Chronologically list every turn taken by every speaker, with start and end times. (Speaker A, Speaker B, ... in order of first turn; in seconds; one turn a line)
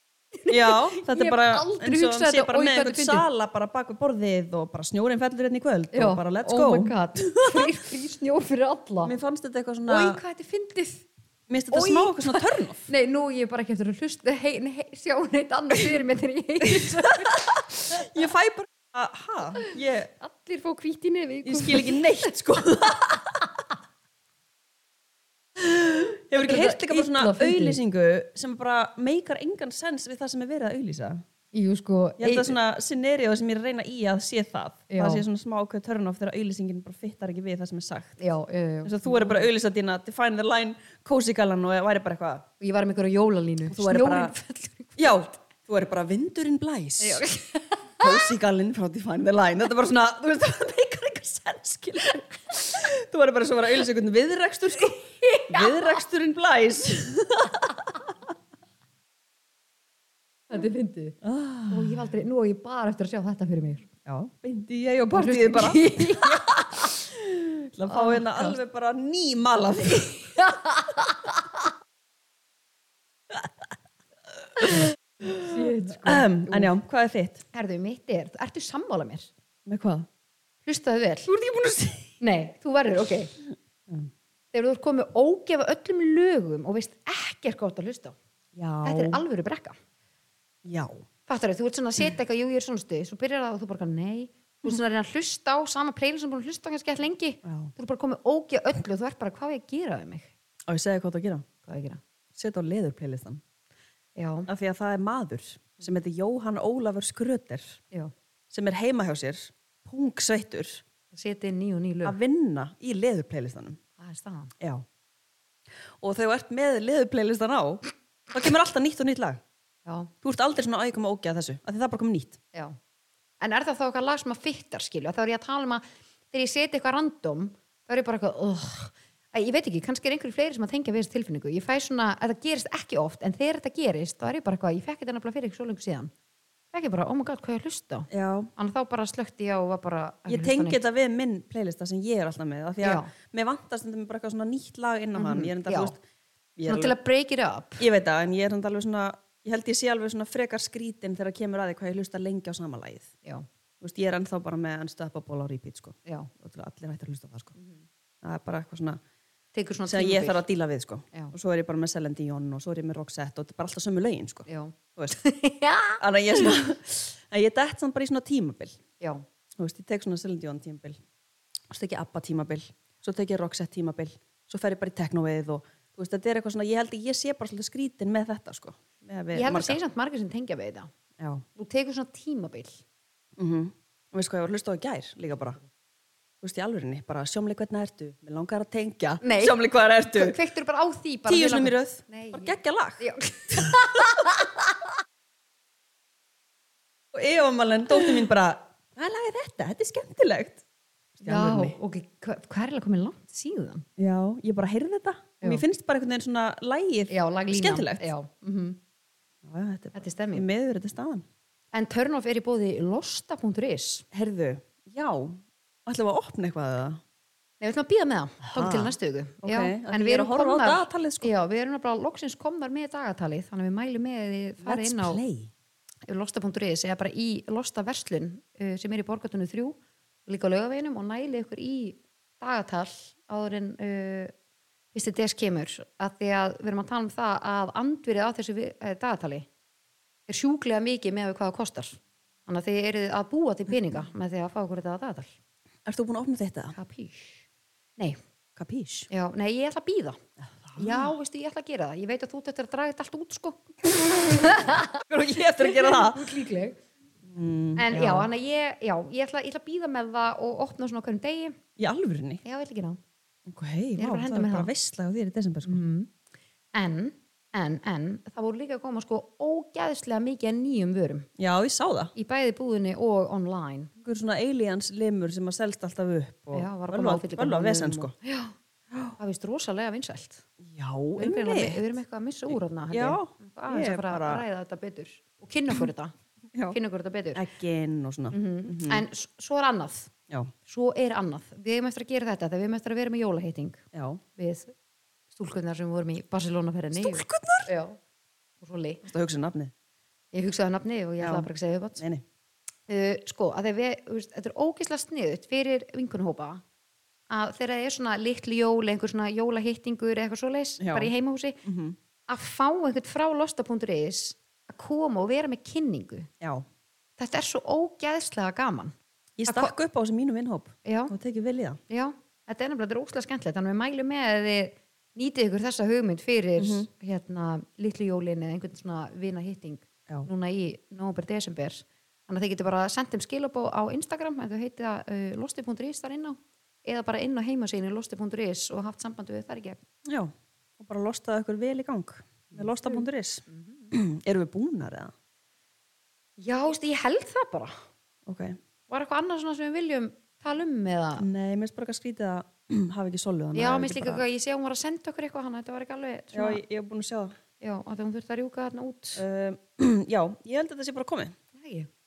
Speaker A: 0.3-3.2
Speaker B: 0.5-7.7
Speaker A: 5.9-9.1
Speaker B: 9.0-10.2
Speaker A: 9.9-11.0
Speaker B: 11.5-12.9
Speaker A: 11.7-18.2
Speaker B: 16.7-20.1
Speaker A: 19.6-22.9
Speaker B: 21.4-23.3
Speaker B: 25.6-31.2
Speaker A: 26.3-27.8
Speaker A: 31.5-32.6
Speaker B: 32.2-38.2
Speaker A: 34.9-35.2
Speaker A: 38.2-39.5
Speaker B: 38.8-42.5
Speaker A: 42.6-45.4
Speaker B: 43.7-44.3
Speaker B: 45.0-47.2
Speaker A: 47.0-48.3
Speaker B: 48.0-58.0
Speaker A: 54.8-56.0
Speaker A: 60.5-61.2
Speaker B: 61.2-62.0
Speaker A: 61.7-63.9
Speaker B: 64.0-70.3
Speaker A: 65.1-67.0
Speaker A: 67.9-68.6
Speaker A: 69.9-71.4
Speaker B: 74.7-77.4
Speaker A: 75.2-76.7
Speaker A: 77.5-79.3
Speaker B: 79.7-80.1
Speaker A: 80.7-81.3
Speaker B: 81.3-82.1
Speaker A: 82.2-83.3
Speaker A: 84.5-88.2
Speaker B: 88.5-89.2
Speaker A: 88.8-89.8
Speaker B: 90.6-91.0
Speaker A: 91.3-100.3
Speaker B: 97.4-97.7
Speaker B: 100.7-101.5
Speaker A: 101.6-102.0
Speaker B: 102.3-103.4
Speaker A: 104.2-104.5
Speaker B: 104.5-107.8
Speaker B: 108.5-110.8
Speaker A: 111.1-112.2
Speaker B: 112.0-113.8
Speaker A: 114.0-114.5
Speaker B: 114.6-114.8
Speaker B: 116.0-119.4
Speaker A: 119.8-120.1
Speaker B: 120.2-122.4
Speaker A: 123.4-136.1
Speaker A: 136.7-140.8
Speaker B: 138.1-138.5
Speaker B: 140.3-146.0
Speaker A: 142.8-143.1
Speaker A: 145.1-145.9
Speaker B: 146.6-146.9
Speaker A: 146.6-147.8
Speaker B: 147.8-153.1
Speaker B: 153.8-157.5
Speaker A: 156.1-156.3
Speaker A: 157.6-157.8
Speaker B: 158.2-159.0
Speaker A: 159.5-160.4
Speaker B: 159.9-165.2
Speaker A: 164.5-166.5
Speaker B: 166.0-168.8
Speaker B: 169.6-171.0
Speaker B: 171.7-179.8
Speaker A: 179.3-180.9
Speaker B: 181.2-181.4
Speaker A: 181.6-182.8
Speaker B: 183.4-185.6
Speaker B: 186.4-190.4
Speaker A: 189.2-189.6
Speaker A: 190.1-194.5
Speaker B: 191.3-193.8
Speaker B: 197.1-200.6
Speaker B: 201.2-201.8
Speaker A: 201.2-203.8
Speaker B: 204.0-208.1
Speaker A: 207.1-208.8
Speaker B: 209.4-211.2
Speaker A: 209.9-210.5
Speaker A: 211.7-214.1
Speaker B: 214.1-217.0
Speaker A: 217.6-225.2
Speaker B: 218.4-221.3
Speaker B: 224.6-225.5
Speaker A: 226.1-234.3
Speaker A: 234.9-239.5
Speaker A: 240.3-245.3
Speaker B: 245.8-246.8
Speaker A: 246.7-247.4
Speaker B: 248.6-249.1
Speaker A: 249.1-250.2
Speaker B: 250.4-251.1
Speaker A: 250.8-255.0
Speaker B: 255.0-256.4
Speaker A: 255.6-256.8
Speaker B: 257.2-258.3
Speaker A: 257.8-261.6
Speaker B: 261.8-262.4
Speaker A: 262.4-263.0
Speaker B: 263.4-265.8
Speaker A: 264.0-264.7
Speaker A: 265.6-266.1
Speaker A: 266.7-271.3
Speaker B: 271.4-272.1
Speaker A: 272.1-273.9
Speaker B: 274.0-278.1
Speaker A: 276.5-278.6
Speaker B: 278.9-279.2
Speaker A: 279.2-280.4
Speaker B: 280.6-281.9
Speaker A: 281.2-286.1
Speaker B: 282.5-284.4
Speaker A: 286.7-287.4
Speaker B: 287.3-289.0
Speaker A: 288.3-290.1
Speaker A: 290.6-293.8
Speaker B: 293.9-294.2
Speaker A: 294.4-294.7
Speaker A: 295.3-298.0
Speaker B: 296.9-297.7
Speaker A: 298.6-299.0
Speaker B: 299.1-299.7
Speaker A: 300.3-302.0
Speaker B: 301.2-301.5
Speaker B: 302.0-302.2
Speaker A: 302.9-306.6
Speaker A: 307.3-311.6
Speaker B: 310.8-311.1
Speaker B: 311.6-311.9
Speaker A: 312.3-316.3
Speaker A: 317.2-318.9
Speaker B: 319.4-321.8
Speaker A: 319.5-319.7
Speaker A: 320.8-321.1
Speaker A: 321.9-339.8
Speaker B: 326.6-326.9
Speaker B: 340.1-345.1
Speaker A: 342.5-343.9
Speaker A: 346.4-347.8
Speaker B: 348.2-348.6
Speaker A: 348.9-351.3
Speaker B: 351.2-354.2
Speaker A: 353.5-356.6
Speaker B: 356.3-357.4
Speaker A: 357.6-359.2
Speaker B: 359.1-361.4
Speaker A: 361.5-361.9